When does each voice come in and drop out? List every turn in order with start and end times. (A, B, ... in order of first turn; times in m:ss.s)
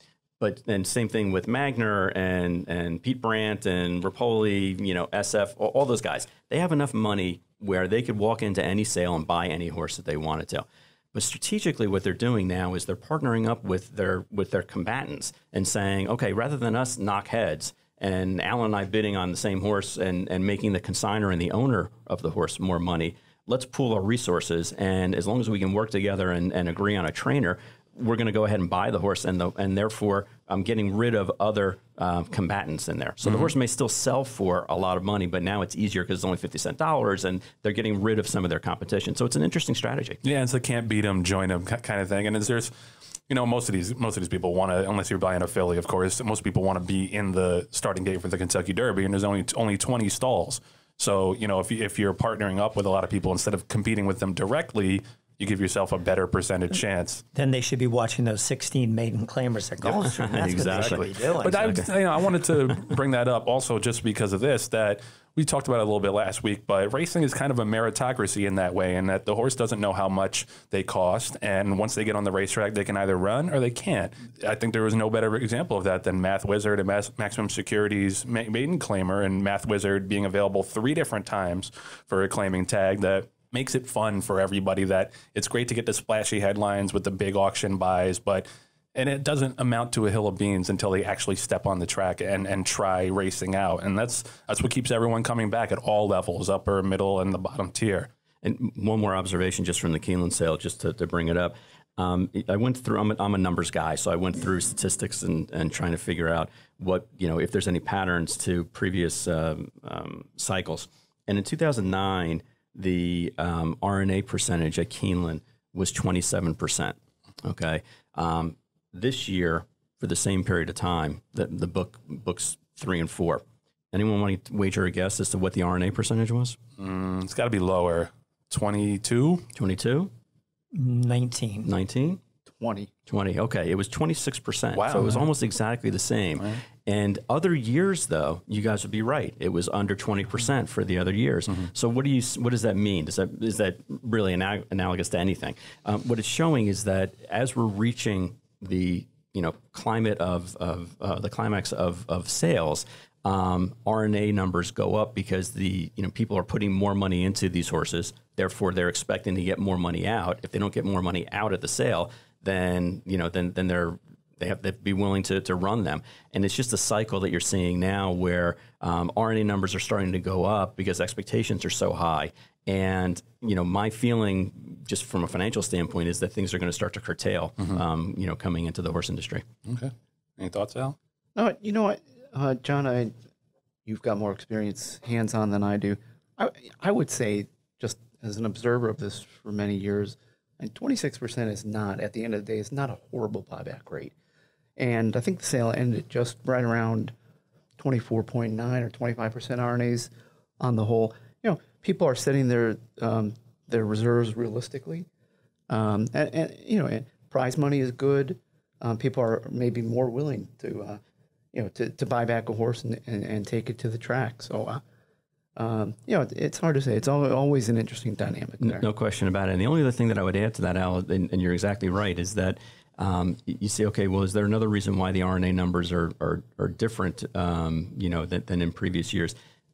0:00.4-0:40.2 A
0:40.2-0:42.7 B
0:43.3-0:57.2 B
0:57.3-1:01.8 C
1:00.0-1:01.9 A
1:00.6-1:38.1 B
1:38.4-2:06.6 A
2:06.8-2:09.4 B
2:09.5-2:10.1 A
2:10.7-2:11.7 C
2:11.6-2:12.2 A
2:12.5-2:12.9 D
2:13.1-2:59.4 A
2:14.8-2:15.3 B
2:59.6-3:01.0 B
3:01.4-3:03.1 D
3:03.8-3:14.1 D
3:14.8-3:17.1 D
3:17.8-3:25.1 D
3:25.7-3:31.0 D
3:31.5-3:34.8 D
3:35.6-3:38.8 D
3:38.6-3:49.3 A